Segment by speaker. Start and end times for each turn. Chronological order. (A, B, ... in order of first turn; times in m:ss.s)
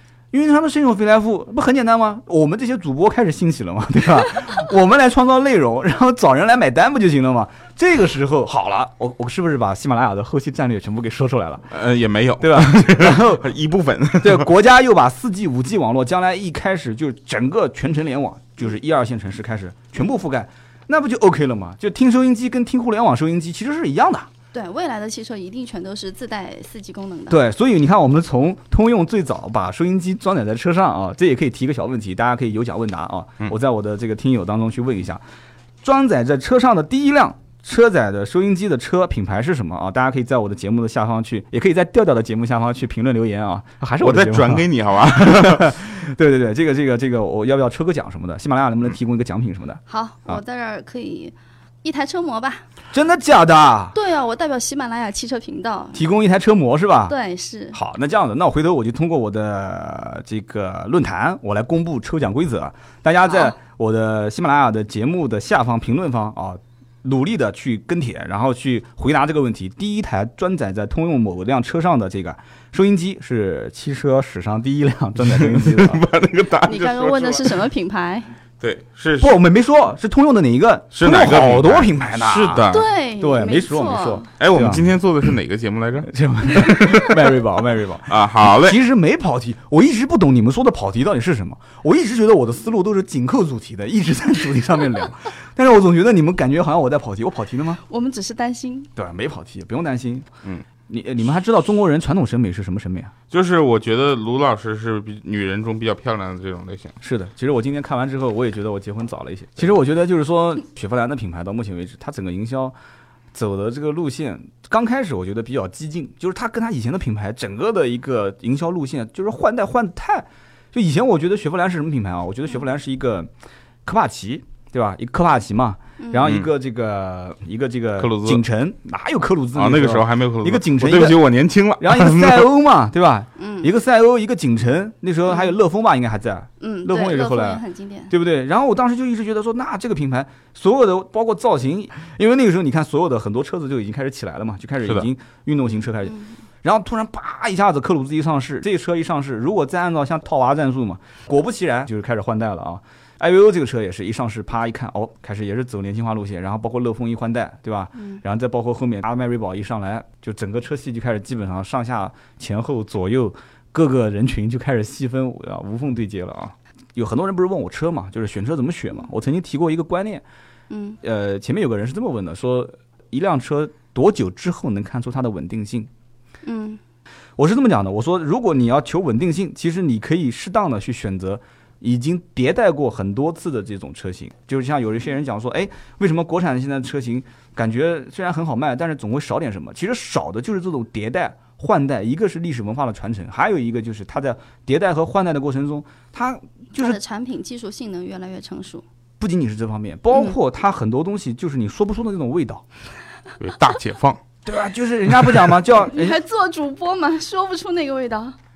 0:00.3-0:11.7 A
0:11.7-0:14.5 B
0:12.4-0:13.5 A
0:14.2-0:24.3 A
0:24.5-0:27.4 C
0:27.3-0:35.2 A
0:35.8-0:50.4 A
0:44.0-0:45.7 B
0:49.9-0:52.7 C
0:52.9-0:54.0 A
0:54.0-0:56.0 C
0:55.9-0:57.2 A
0:57.1-0:57.8 C
0:57.7-1:16.0 A
1:15.3-1:17.6 B
1:16.6-1:18.3 C
1:18.6-1:19.4 B
1:19.2-1:25.0 A
1:20.9-1:22.9 B
1:22.7-1:24.3 C
1:24.4-1:27.3 B
1:26.1-1:37.8 A
1:28.1-1:28.8 B
1:37.9-1:38.9 C
1:39.0-1:40.3 A
1:40.9-1:43.1 A
1:43.3-1:46.9 B
1:47.0-1:52.8 A
1:53.3-2:03.3 A
2:03.8-2:11.3 A
2:06.0-2:06.3 C
2:06.2-2:06.5 B
2:08.0-2:08.4 B
2:09.6-2:12.5 B
2:11.8-2:50.2 A
2:13.4-2:13.7 C
2:16.6-2:18.1 C
2:50.7-2:51.0 C
2:51.0-2:55.9 A
2:56.4-2:56.8 C
2:57.4-3:17.0 A
3:16.8-3:18.8 C
3:19.2-3:22.6 A
3:23.4-3:24.2 B
3:24.5-3:26.2 A
3:25.9-3:28.4 C